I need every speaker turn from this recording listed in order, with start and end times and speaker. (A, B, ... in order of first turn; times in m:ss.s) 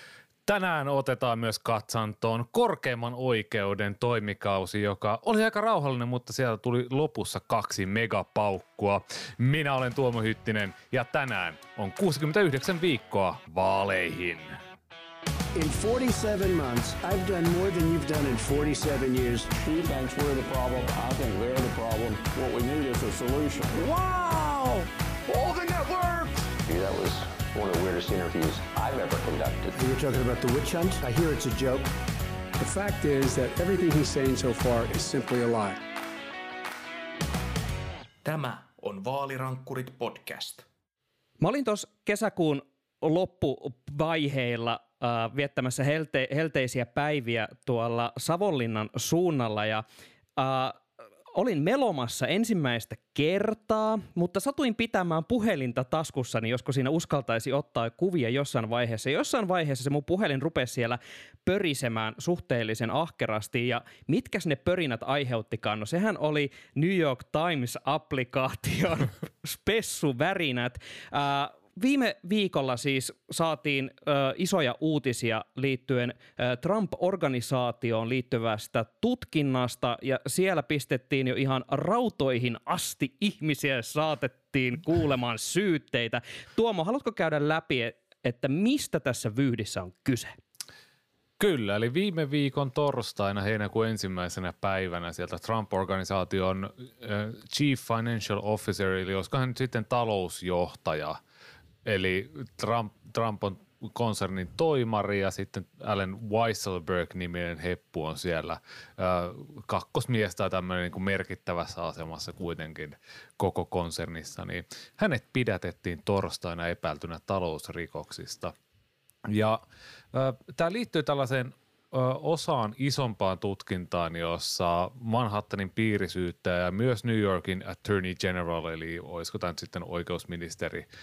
0:00.5-0:14.6 A
0:15.6-0:19.5 B
0:19.6-0:23.9 C
0:23.8-0:26.5 B
0:26.7-0:29.8 D
0:29.8-0:31.9 B
0:32.6-0:35.8 E
0:38.2-0:40.6 F
0:41.4-0:49.8 G
0:50.4-0:50.8 G
0:51.4-1:30.4 G
1:31.4-1:41.2 A
1:41.8-1:58.5 A
1:59.3-1:59.6 A
2:00.1-2:10.9 A